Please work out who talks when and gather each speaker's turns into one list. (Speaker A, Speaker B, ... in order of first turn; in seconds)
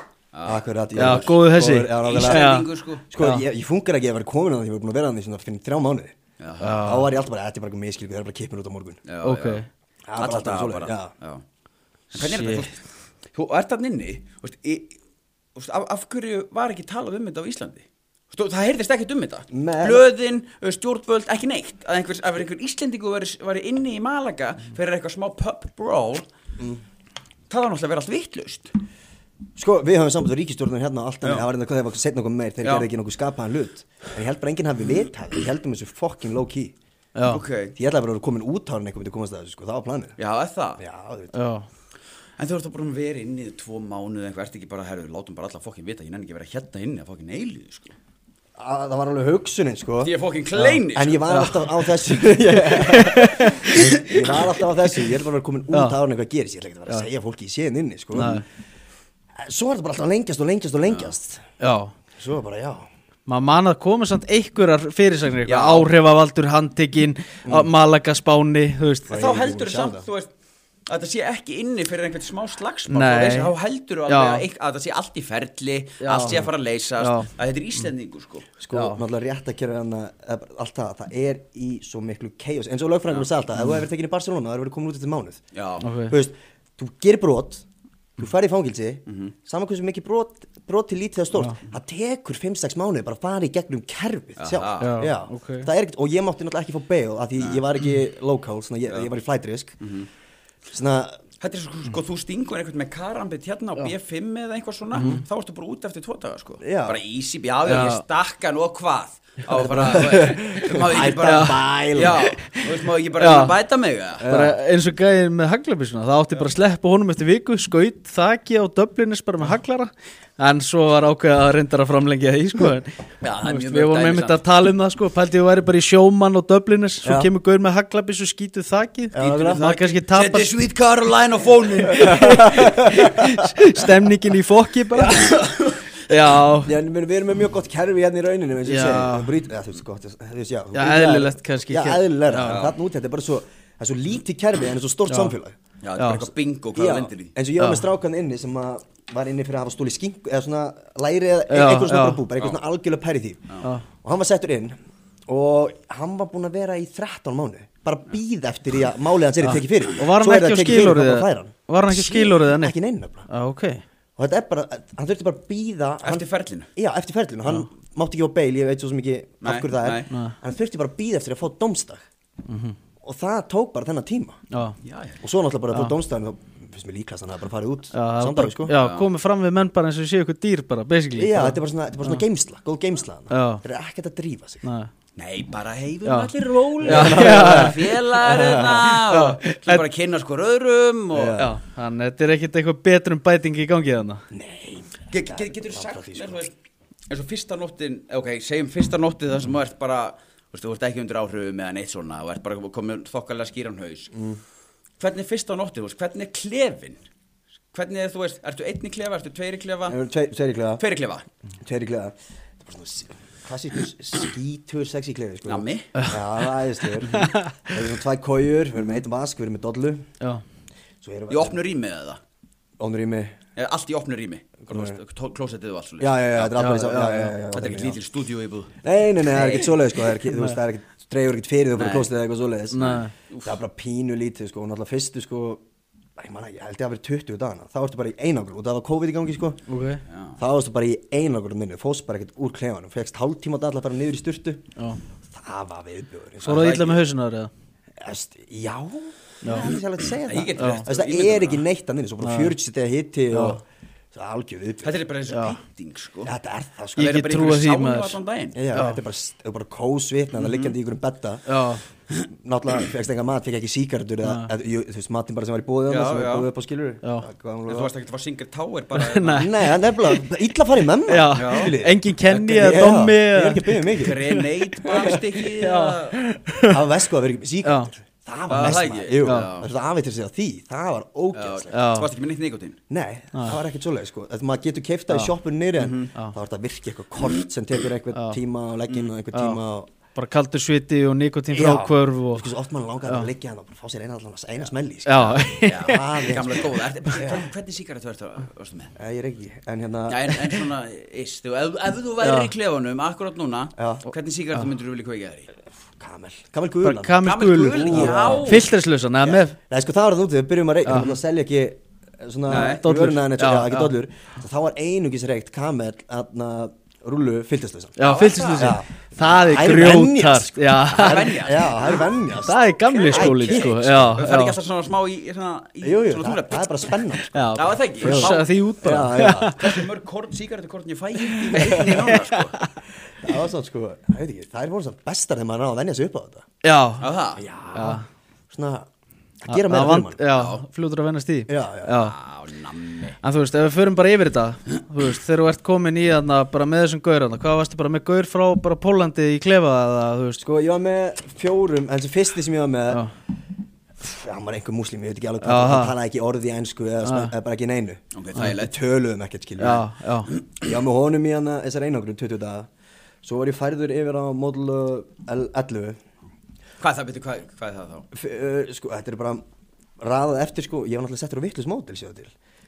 Speaker A: 0.3-1.3, 2.0-3.0, 6.4-6.9, 9.1-9.6, 10.2-11.4, 12.1-12.8, 13.3-14.9, 15.5-26.2, 27.5-28.7, 31.2-31.5, 32.6-32.9, 37.2-37.7, 40.2-40.8, 42.4-47.9, 50.0-51.4, 65.5-65.9, 69.1-70.3, 70.9-78.5, 85.5-85.9, 89.1-89.3, 94.4-95.0, 97.4-97.6, 99.8-100.1, 101.4-114.3, 123.2-124.4, 129.2-133.0, 134.9-135.8, 142.4-142.8, 145.8-147.3, 166.0-166.7, 169.4-170.1, 174.8-175.2, 178.7-179.1, 185.2-191.4, 195.1-196.5, 197.1-204.1, 205.0-207.0, 207.7-210.0, 210.8-211.2, 215.5-215.9, 221.3-222.2, 223.6-226.6, 227.5-229.8, 231.8-232.1, 232.8-233.6, 240.1-240.3, 246.4-247.0, 249.5-251.6, 254.8-256.3, 256.9-258.7, 260.4-260.7, 265.9-266.5, 267.7-269.5, 271.3-271.8, 273.9-276.2, 278.5-279.7, 281.3-282.8, 285.8-286.1, 295.6-298.9, 300.1-305.5, 307.2-308.7, 312.5-312.8, 318.0-318.8, 320.9-322.0, 322.9-327.0, 327.5-332.6, 337.0-337.4, 340.3-340.6, 342.0-343.2, 358.1-358.7, 366.8-368.1
Speaker B: 0.4-6.1, 6.8-9.0, 10.1-11.1, 19.5-20.1, 29.6-36.7, 37.7-40.1, 40.8-41.3, 48.6-50.1, 50.9-58.4, 59.4-61.4, 62.2-62.9, 69.1-70.1, 78.6-85.4, 86.1-87.6, 88.2-99.8, 100.7-101.2, 106.6-107.0, 109.5-112.3, 114.2-114.6, 127.0-127.3, 129.1-129.6, 132.0-133.4, 136.6-145.6, 146.7-154.8, 155.3-163.3, 164.2-172.0, 173.0-174.4, 175.2-178.8, 181.1-184.6, 186.8-189.2, 191.1-191.5, 194.3-196.4, 204.1-204.4, 209.9-210.8, 211.6-220.1, 221.0-221.6, 222.8-223.4, 224.7-225.0, 226.0-228.0, 228.8-235.6, 236.2-239.6, 240.4-244.6, 245.3-246.8, 248.0-253.6, 254.1-254.9, 256.2-257.2, 258.5-261.5, 262.3-267.9, 269.3-275.2, 276.6-281.9, 282.9-289.9, 291.5-297.4, 298.9-300.6, 303.8-304.1, 306.0-308.6, 309.3-318.0, 318.5-322.6, 323.1-324.2, 325.8-329.6, 331.6-331.9, 333.2-336.4, 337.4-338.9, 339.4-340.2, 341.5-342.0, 350.4-353.0, 354.0-359.9, 360.6-362.7, 363.2-366.0, 368.1-369.4, 370.0-372.3
Speaker C: 0.9-3.4, 6.6-7.1, 9.2-9.7, 12.1-12.7, 37.1-37.4, 41.3-41.6, 51.3-51.7, 52.5-54.1, 55.7-56.0, 58.1-58.4, 61.6-61.9, 63.3-69.2, 72.9-73.5, 74.1-74.4, 76.0-77.3, 78.7-79.0, 85.8-86.1, 94.8-95.7, 104.9-105.2, 107.7-108.0, 111.2-111.6, 113.2-113.5, 114.2-130.5, 131.9-135.4, 136.1-136.7, 138.6-139.3, 140.7-142.6, 145.1-145.3, 146.0-146.3, 147.6-147.8, 151.5-152.2, 159.4-162.8, 163.3-163.8, 170.1-170.3, 172.5-172.8, 177.9-182.2, 183.3-183.6, 184.6-184.9, 186.0-187.8, 189.1-189.8, 191.4-194.2, 217.1-217.5, 226.6-227.4, 230.3-230.6, 232.7-233.1, 239.7-240.0, 246.4-247.5, 249.4-249.7, 250.6-250.8, 252.2-252.5, 253.3-253.6, 255.3-255.6, 256.9-258.2, 258.7-259.0, 261.5-261.8, 264.2-264.5, 268.9-269.5, 271.1-274.4, 275.6-276.8, 277.6-277.9, 279.2-279.5, 281.7-282.1, 288.1-288.4, 289.3-289.6, 290.1-292.5, 295.1-296.2, 302.2-302.5, 306.8-309.6, 310.9-311.1, 312.5-313.9, 318.0-321.4, 322.4-324.6, 327.3-329.7, 331.5-332.6, 336.6-337.1, 337.7-338.0, 339.5-342.1, 343.2-350.4, 355.4-355.9, 357.0-357.3, 359.6-360.3